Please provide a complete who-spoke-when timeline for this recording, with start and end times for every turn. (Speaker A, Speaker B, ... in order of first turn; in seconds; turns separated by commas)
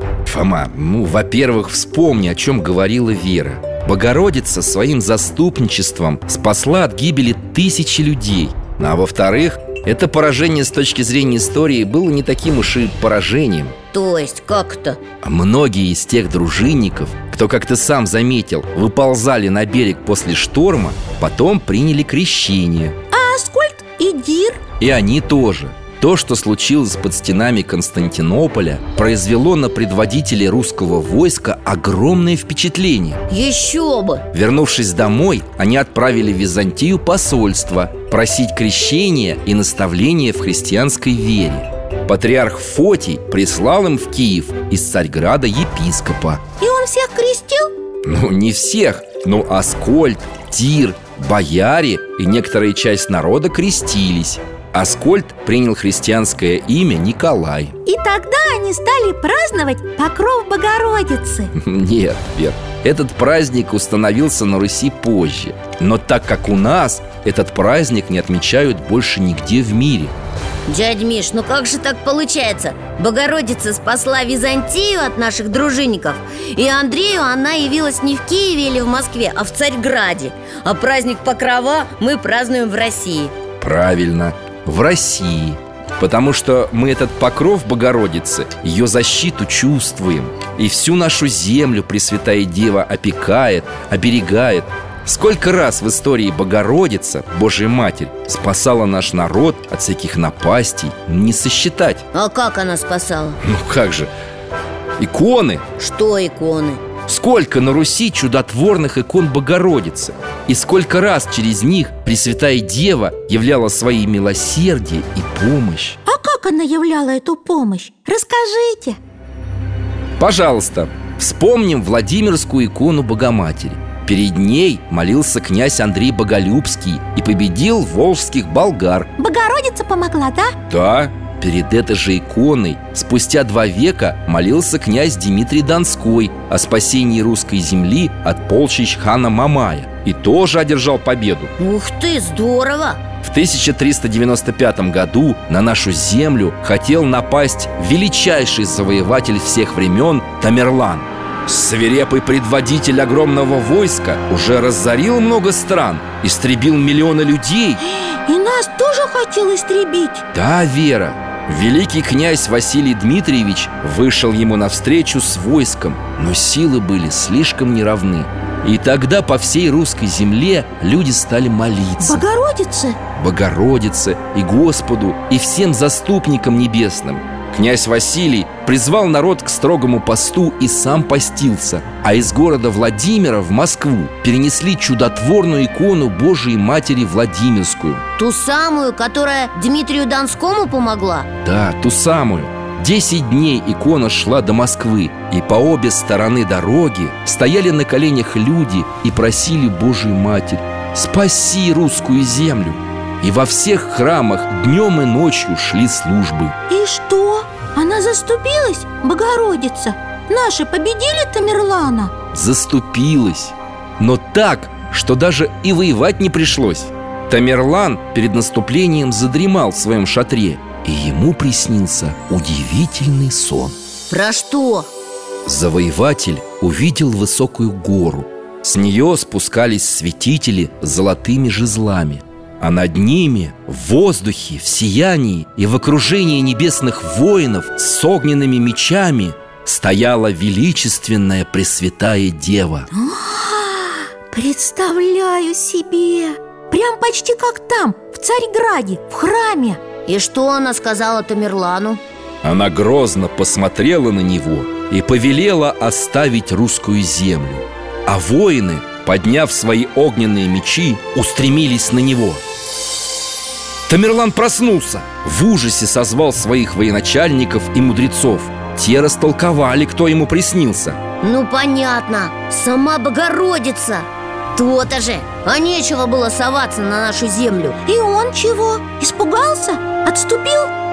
Speaker A: 0.3-13.8, Speaker B: 13.9-15.0, Speaker A: 15.2-23.0, Speaker C: 23.1-24.6, Speaker A: 24.8-33.2, Speaker B: 33.3-34.2, Speaker A: 34.3-46.4, Speaker C: 46.6-47.7, Speaker A: 48.0-57.8, Speaker C: 57.9-61.5, Speaker A: 61.5-70.1, Speaker B: 70.7-83.3, Speaker A: 83.6-102.0, Speaker B: 102.1-103.4, Speaker A: 103.4-104.1, Speaker A: 105.0-105.7, Speaker B: 105.8-106.8, Speaker A: 107.1-116.0, Speaker C: 116.1-119.0, Speaker A: 120.2-129.1, Speaker C: 129.2-130.6, Speaker A: 130.7-141.5, Speaker B: 141.6-143.0, Speaker A: 143.2-157.8, Speaker C: 157.8-160.2, Speaker A: 160.3-172.2, Speaker C: 172.0-173.0, Speaker A: 173.2-188.1, Speaker B: 188.2-191.3, Speaker A: 191.4-206.6, Speaker C: 206.7-212.1, Speaker A: 212.3-223.8, Speaker B: 224.1-224.9, Speaker A: 225.5-242.9, Speaker C: 242.9-249.8, Speaker B: 250.1-252.0, Speaker A: 252.4-262.4, Speaker A: 263.9-271.0, Speaker B: 271.2-277.8, Speaker C: 277.9-280.7